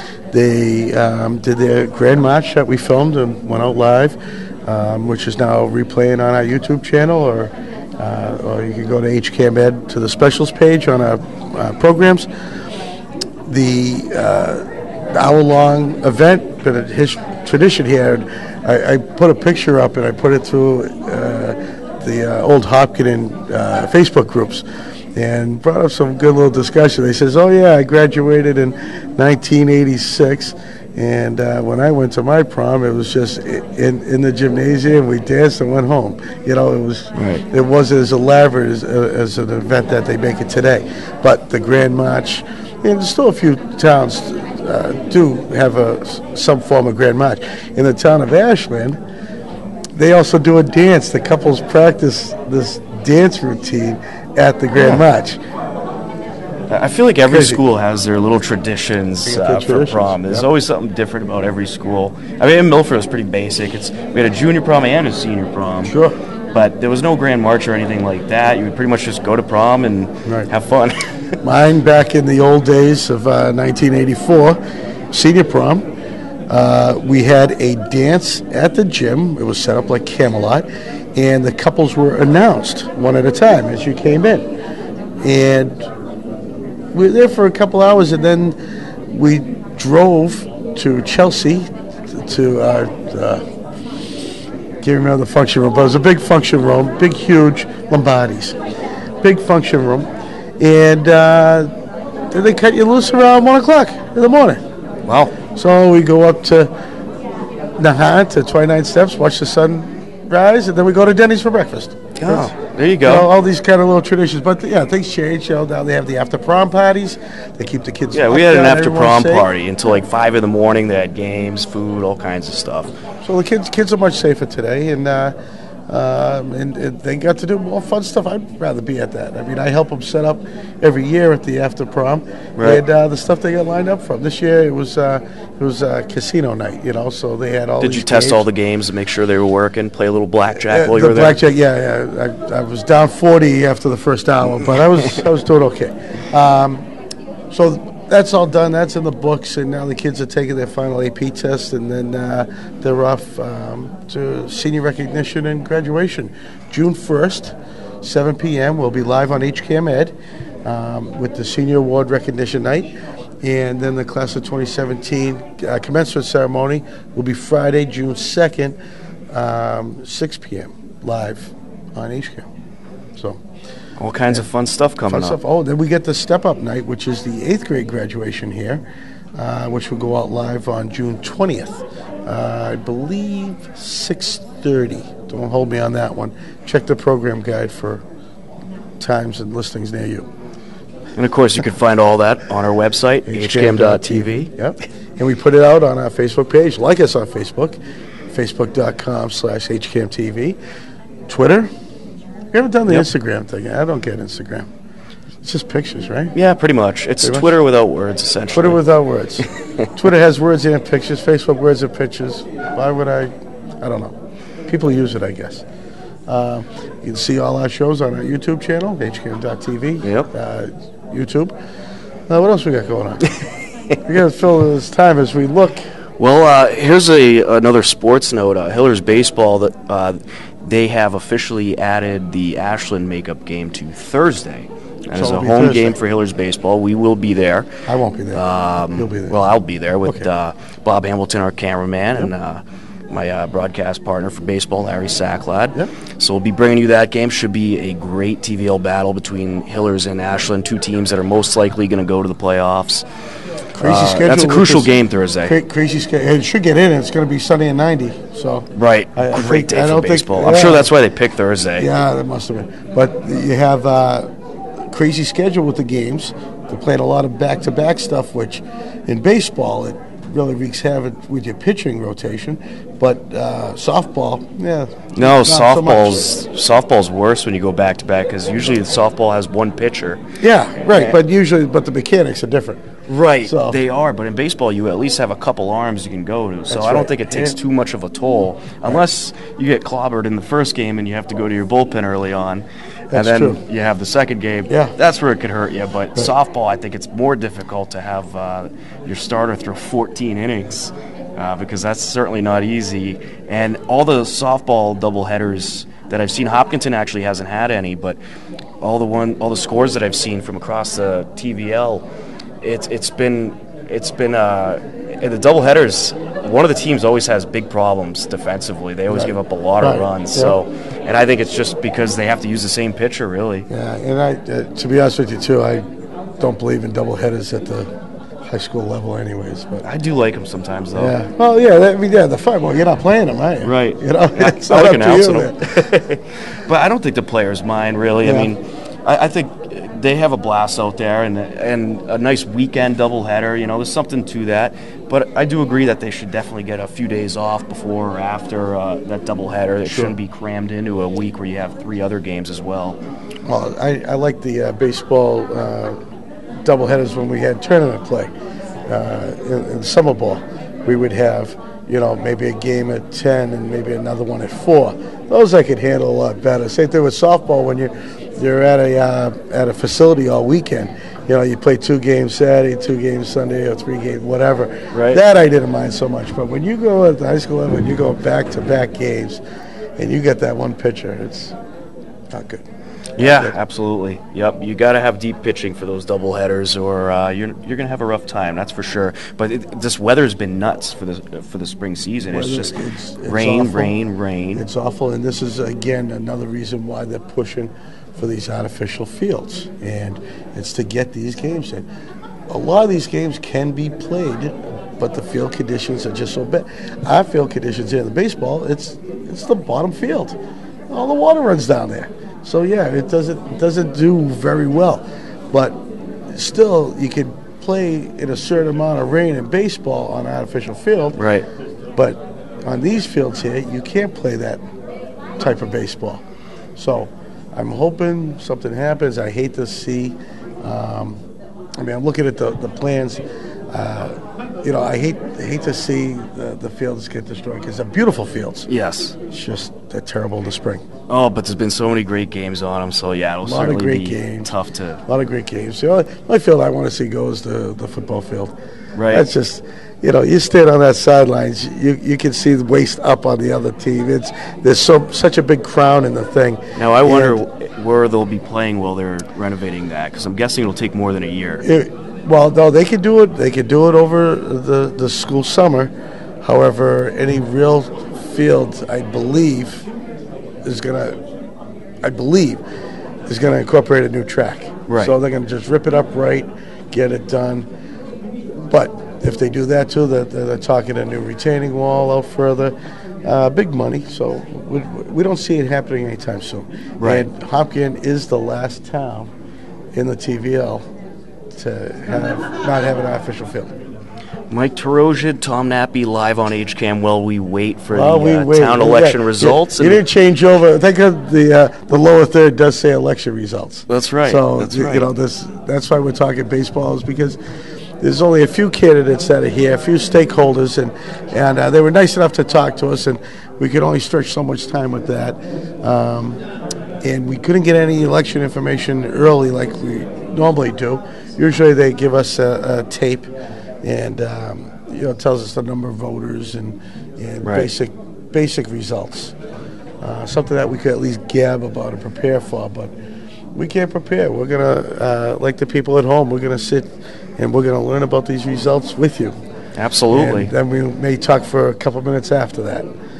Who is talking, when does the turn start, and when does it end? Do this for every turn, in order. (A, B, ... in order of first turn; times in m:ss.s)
0:00.3-0:12.3 A
0:13.4-0:49.0 A
0:37.1-0:37.4 B
0:49.9-0:55.4 A
0:56.7-1:05.9 B
0:57.2-0:57.6 A
0:59.2-1:00.5 A
1:05.8-1:06.2 A
1:06.5-1:11.4 B
1:11.4-1:14.6 A
1:15.1-1:15.9 A
1:16.5-1:24.5 A
1:25.2-1:25.9 A
1:26.9-1:28.6 A
1:29.1-1:33.4 A
1:34.8-1:38.6 A
1:39.2-1:41.7 A
1:42.3-1:44.6 A
1:45.0-1:45.3 B
1:45.5-1:46.7 A
1:47.8-1:59.5 A
1:52.2-1:53.3 B
1:58.1-2:02.9 B
2:03.2-2:05.4 A
2:05.9-2:18.4 A
2:12.6-2:12.8 B
2:17.8-2:21.4 B
2:20.5-2:26.8 A
2:27.5-2:48.8 A
2:49.3-2:52.5 A
2:53.2-2:53.4 A
2:54.0-2:55.4 B
2:55.1-2:58.8 A
2:59.4-3:08.0 A
3:09.0-3:10.3 A
3:11.2-3:14.5 B
3:13.2-3:17.8 A
3:18.3-3:20.6 A
3:21.3-3:21.7 A
3:22.5-3:24.7 A
3:25.4-3:26.3 A
3:26.3-3:28.8 B
3:27.2-3:27.5 A
3:28.5-3:34.1 A
3:34.7-3:35.6 A
3:36.3-3:41.5 A
3:40.0-3:40.3 B
3:42.3-3:43.2 A
3:44.0-3:45.9 A
3:46.2-3:57.7 B
3:55.1-3:56.0 A
3:57.9-3:59.4 A
3:58.3-4:13.0 B
4:13.8-4:20.9 A
4:13.8-4:15.6 B
4:18.7-4:21.9 B
4:21.8-4:36.3 A
4:35.1-4:40.2 B
4:40.4-4:42.8 A
4:40.8-4:41.2 B
4:43.1-5:08.2 B
4:43.4-4:43.8 A
4:46.7-4:47.6 A
4:53.1-4:53.6 A
4:54.7-4:54.9 A
5:08.8-5:12.0 B
5:12.6-5:23.7 B
5:19.1-5:20.6 A
5:23.7-5:25.9 A
5:26.4-5:27.9 A
5:28.4-5:29.8 A
5:29.8-5:31.2 B
5:30.9-5:35.9 A
5:33.6-5:53.0 B
5:38.2-5:38.5 A
5:49.8-5:50.1 A
5:53.4-5:56.0 A
5:56.6-5:58.3 A
5:58.9-6:19.4 A
6:14.9-6:15.2 B
6:20.0-6:21.6 A
6:22.3-6:22.6 A
6:23.2-6:23.6 A
6:23.2-6:34.6 B
6:32.3-6:34.0 A
6:34.5-6:41.9 A
6:42.5-6:50.4 A
6:50.9-6:55.8 A
6:56.3-7:01.2 A
7:01.2-7:01.4 B
7:02.0-7:04.6 A
7:05.4-7:06.2 A
7:06.8-7:11.2 A
7:11.8-7:18.7 A
7:18.7-7:19.2 B
7:19.3-7:20.8 A
7:21.1-7:25.0 B
7:23.4-7:24.5 A
7:25.1-7:28.5 A
7:28.9-7:29.3 B
7:29.1-7:37.4 A
7:36.8-7:41.6 B
7:41.6-7:49.9 A
7:50.6-7:51.2 A
7:52.0-7:52.6 A
7:53.2-7:57.7 A
7:54.9-7:55.1 B
7:58.5-8:09.3 A
8:07.0-8:07.3 B
8:09.9-8:10.9 A
8:11.5-8:13.7 A
8:14.5-8:20.0 B
8:17.9-8:27.4 A
8:23.9-8:25.1 B
8:28.0-8:36.4 A
8:37.0-8:43.3 A
8:43.8-8:49.3 A
8:47.4-8:47.7 B
8:50.0-8:52.9 A
8:53.5-8:59.4 A
8:59.8-9:00.5 B
9:00.1-9:02.9 A